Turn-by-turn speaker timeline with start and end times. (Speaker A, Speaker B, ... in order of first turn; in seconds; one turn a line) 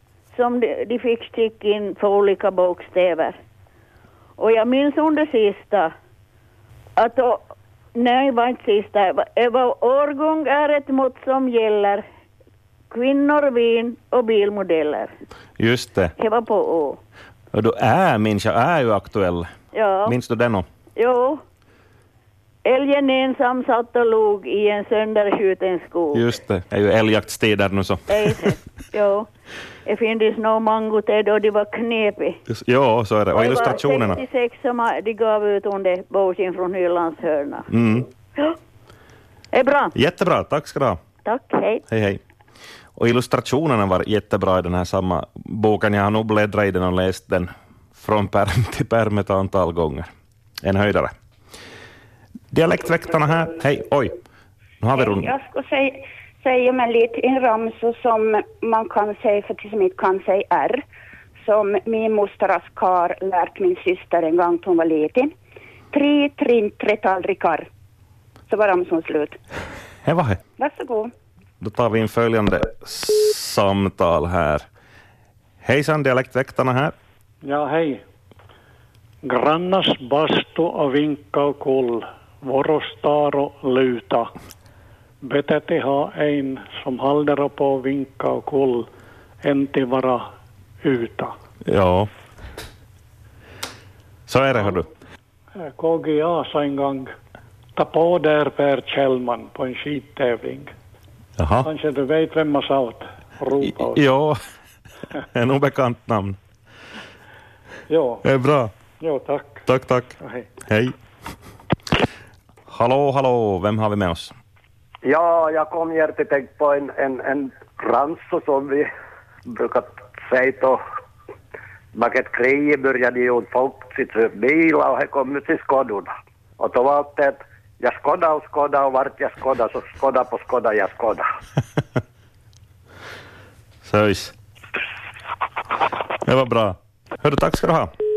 Speaker A: 0.3-3.4
Speaker A: 4.4-5.9
Speaker A: 7.0-12.0
Speaker A: 12.9-15.1
Speaker B: 15.6-16.1
Speaker A: 16.2-17.0
Speaker B: 17.5-19.5
Speaker A: 19.7-20.1
Speaker B: 20.1-20.6
Speaker A: 20.9-21.4
Speaker A: 22.6-26.2
Speaker B: 26.1-28.5
Speaker A: 28.1-29.3
Speaker A: 29.9-32.4
Speaker B: 32.5-34.2
Speaker A: 33.3-37.7
Speaker B: 37.7-38.1
Speaker A: 39.5-39.9
Speaker B: 39.9-41.0
Speaker A: 41.2-41.8
Speaker B: 41.9-42.2
Speaker B: 43.0-50.1
Speaker B: 50.6-51.1
Speaker B: 52.5-54.1
Speaker B: 54.8-55.3
Speaker C: 54.9-60.8
Speaker C: 61.4-65.3
Speaker C: 65.9-67.7
Speaker C: 68.5-69.4
Speaker B: 70.0-70.4
Speaker C: 70.6-71.1
Speaker B: 71.6-74.7
Speaker B: 75.6-76.9
Speaker D: 77.4-78.0
Speaker D: 79.2-84.3
Speaker D: 85.2-88.9
Speaker D: 89.4-90.3
Speaker D: 90.8-91.3
Speaker B: 91.6-92.1
Speaker B: 94.3-94.9
Speaker D: 95.6-97.1
Speaker D: 97.8-100.7
Speaker B: 101.4-101.7
Speaker D: 101.6-104.0
Speaker B: 103.6-104.4
Speaker B: 105.3-106.4
Speaker D: 107.9-108.2
Speaker B: 108.2-108.7
Speaker D: 109.0-109.7
Speaker B: 109.7-110.9
Speaker D: 110.2-110.5
Speaker B: 112.7-114.3
Speaker E: 115.0-118.9
Speaker E: 119.5-120.8
Speaker E: 121.9-131.3
Speaker B: 133.8-134.3
Speaker B: 136.2-137.9